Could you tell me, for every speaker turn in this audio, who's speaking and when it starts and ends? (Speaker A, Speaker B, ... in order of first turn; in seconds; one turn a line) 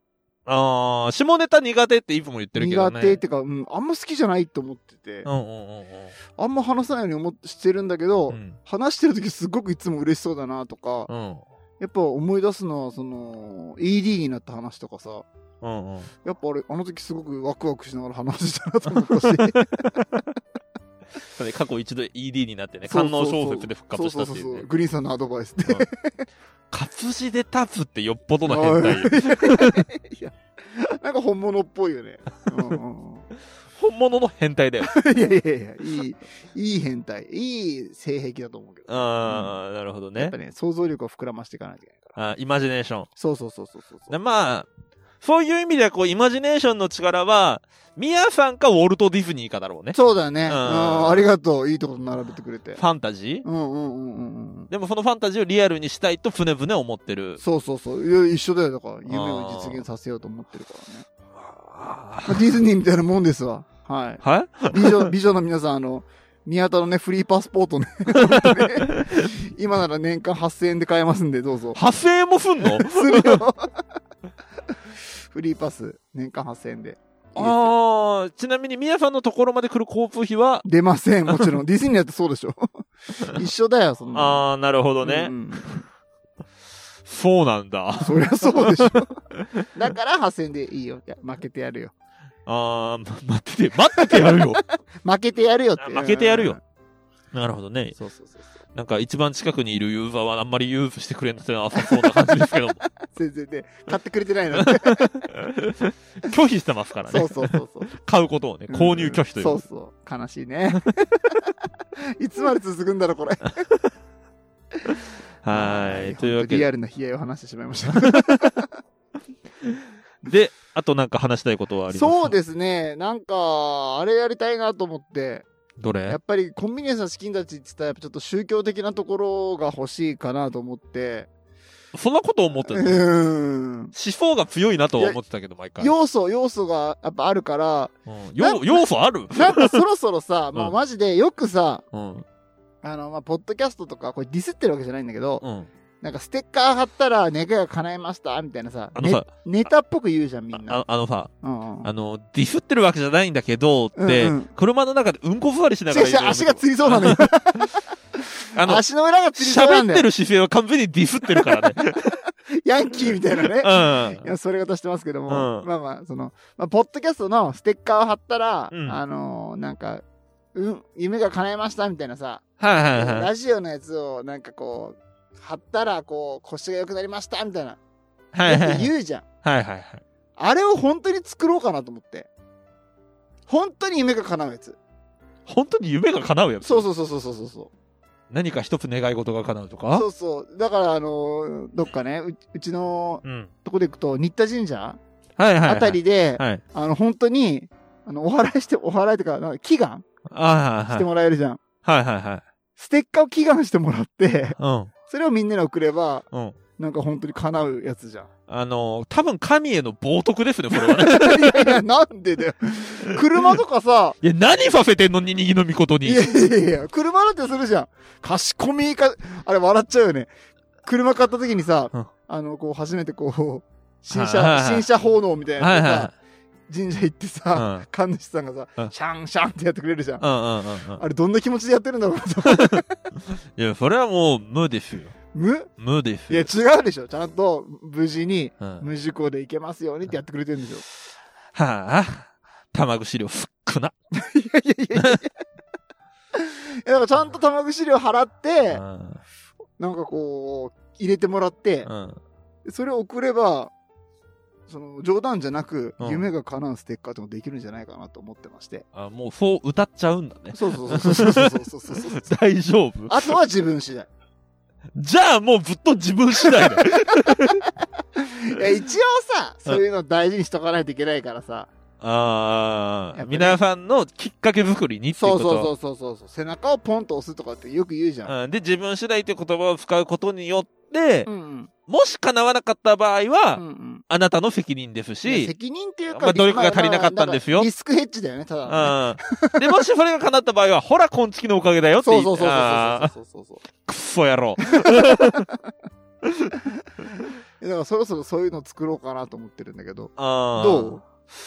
Speaker A: 0.5-3.2
Speaker B: 2.6-5.3
Speaker A: 5.2-6.1
Speaker B: 6.3-11.1
Speaker A: 8.3-8.6
Speaker A: 11.1-11.4
Speaker B: 11.8-15.2
Speaker A: 15.6-16.1
Speaker B: 16.2-20.0
Speaker A: 19.1-19.6
Speaker A: 21.4-24.7
Speaker B: 22.9-26.2
Speaker A: 26.7-29.8
Speaker B: 28.5-33.2
Speaker A: 33.8-34.9
Speaker B: 34.8-39.6
Speaker A: 38.9-40.3
Speaker B: 40.2-42.2
Speaker A: 42.1-43.1
Speaker B: 43.2-44.1
Speaker A: 44.1-44.7
Speaker A: 45.2-51.2
Speaker B: 49.9-52.8
Speaker A: 52.8-53.4
Speaker B: 53.4-54.7
Speaker A: 54.7-57.4
Speaker B: 57.4-61.0
Speaker A: 59.1-59.8
Speaker A: 61.4-62.6
Speaker B: 62.2-71.8
Speaker A: 64.2-65.1
Speaker A: 68.1-69.1
Speaker A: 71.7-73.4
Speaker B: 72.6-73.7
Speaker B: 75.3-77.7
Speaker A: 77.3-80.7
Speaker B: 80.6-84.4
Speaker A: 84.1-85.3
Speaker B: 85.0-85.8
Speaker A: 87.0-89.6
Speaker B: 88.0-89.1
Speaker B: 89.7-91.9
Speaker A: 92.5-94.6
Speaker B: 94.0-94.4
Speaker B: 95.0-96.6
Speaker A: 95.8-96.6
Speaker A: 97.3-98.0
Speaker B: 98.0-98.5
Speaker A: 98.7-102.8
Speaker B: 101.8-102.3
Speaker B: 103.1-105.1
Speaker A: 104.6-109.6
Speaker B: 107.1-107.9
Speaker B: 108.7-111.2
Speaker B: 112.2-113.6
Speaker A: 115.4-116.7
Speaker B: 115.5-118.7
Speaker A: 118.0-118.5
Speaker A: 120.2-122.3
Speaker B: 121.9-125.5
Speaker A: 125.8-126.2
Speaker B: 126.1-131.3
Speaker A: 131.9-133.0
Speaker B: 132.7-133.9
Speaker A: 133.9-135.9
Speaker B: 135.8-141.8
Speaker A: 138.1-139.8
Speaker A: 141.9-142.2
Speaker B: 142.8-145.4
Speaker A: 145.4-145.7
Speaker B: 146.0-150.8
Speaker A: 148.9-149.3
Speaker A: 150.5-151.3
Speaker B: 151.4-151.9
Speaker A: 151.8-157.3
Speaker B: 154.0-154.5
Speaker B: 155.9-160.1
Speaker A: 158.5-158.8
Speaker A: 159.3-162.2
Speaker B: 161.3-161.7
Speaker B: 162.6-170.0
Speaker A: 163.0-164.3
Speaker A: 165.3-165.7
Speaker A: 168.7-169.0
Speaker B: 170.5-172.4
Speaker A: 172.6-173.3
Speaker B: 172.9-177.8
Speaker A: 178.3-178.9
Speaker B: 178.4-179.2
Speaker A: 179.4-180.0
Speaker B: 180.4-182.3
Speaker B: 183.5-184.8
Speaker A: 185.5-186.8
Speaker B: 186.6-187.7
Speaker A: 188.3-190.0
Speaker B: 189.9-195.0
Speaker A: 193.2-193.5
Speaker A: 195.4-196.6
Speaker B: 195.6-200.0
Speaker A: 200.3-201.1
Speaker B: 200.9-201.6
Speaker A: 201.8-202.4
Speaker B: 202.8-206.2
Speaker A: 204.6-204.9
Speaker B: 206.8-208.3
Speaker A: 208.5-211.8
Speaker B: 210.8-214.2
Speaker A: 213.1-213.6
Speaker A: 214.2-216.2
Speaker B: 216.0-220.3
Speaker B: 220.8-226.1
Speaker A: 224.1-224.9
Speaker A: 225.6-226.1
Speaker B: 226.7-230.2
Speaker A: 227.5-227.8
Speaker A: 230.2-231.0
Speaker B: 231.0-232.9
Speaker A: 232.5-232.8
Speaker A: 233.6-235.1
Speaker B: 235.3-235.7
Speaker A: 235.8-236.5
Speaker B: 236.3-240.8
Speaker A: 241.5-243.9
Speaker B: 244.1-245.3
Speaker B: 246.3-248.8
Speaker A: 248.7-249.2
Speaker B: 249.8-251.9
Speaker A: 251.8-252.2
Speaker B: 252.6-253.7
Speaker B: 254.7-258.8
Speaker A: 256.0-256.2
Speaker A: 258.9-263.4
Speaker B: 260.5-262.3
Speaker B: 263.1-264.1
Speaker A: 264.9-267.6
Speaker B: 266.6-267.5
Speaker B: 268.1-271.7
Speaker A: 272.0-275.7
Speaker B: 273.1-273.6
Speaker B: 275.1-278.3
Speaker A: 278.3-281.3
Speaker B: 281.2-281.7
Speaker A: 281.9-285.5
Speaker B: 283.6-284.0
Speaker B: 285.2-289.8
Speaker A: 286.1-287.7
Speaker A: 288.7-293.1
Speaker B: 292.0-293.6
Speaker A: 293.8-295.5
Speaker B: 294.6-295.5
Speaker B: 297.6-301.0
Speaker A: 300.2-301.0